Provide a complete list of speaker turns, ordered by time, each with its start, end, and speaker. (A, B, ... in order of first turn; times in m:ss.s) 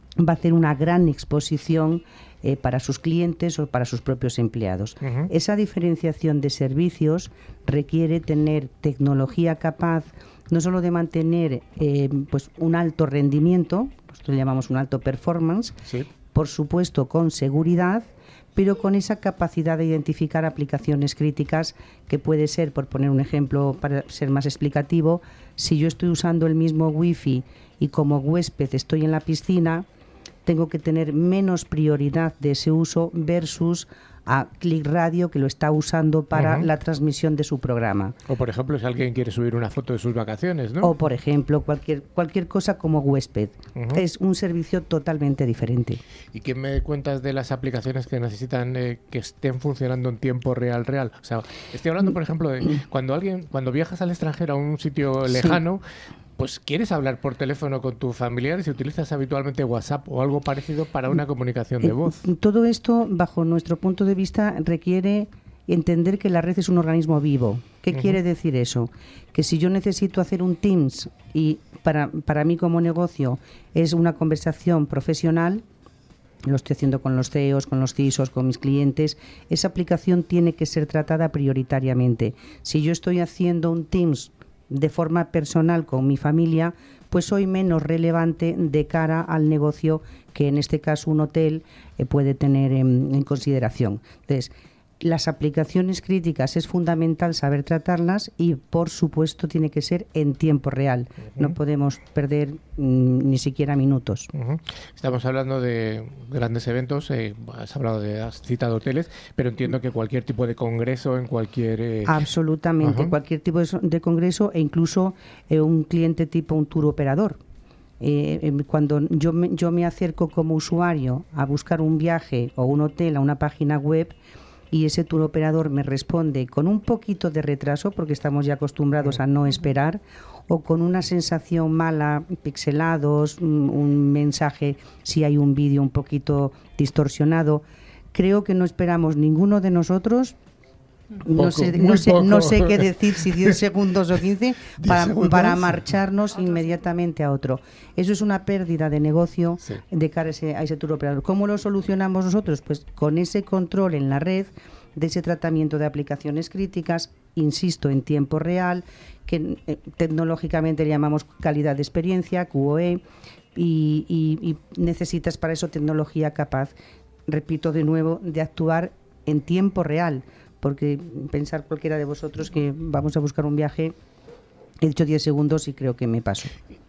0:00.2-0:15.8 A
0:05.0-0:05.3 B
0:16.3-0:29.9 A
0:30.4-0:38.1 A
0:36.3-0:36.7 B
0:38.3-0:40.9 B
0:40.8-0:46.0 A
0:43.8-0:44.0 B
0:46.3-1:02.3 B
1:01.8-1:15.6 A
1:07.9-1:08.2 B
1:16.4-1:44.3 A
1:44.3-1:52.3 B
1:52.0-1:57.4 A
1:52.8-1:53.1 B
1:58.0-2:04.1 A
2:04.7-2:20.4 A
2:21.2-2:43.0 A
2:21.3-2:23.6 B
2:24.8-2:25.9 B
2:43.5-2:46.7 A
2:47.3-2:54.0 A
2:54.8-2:56.5 A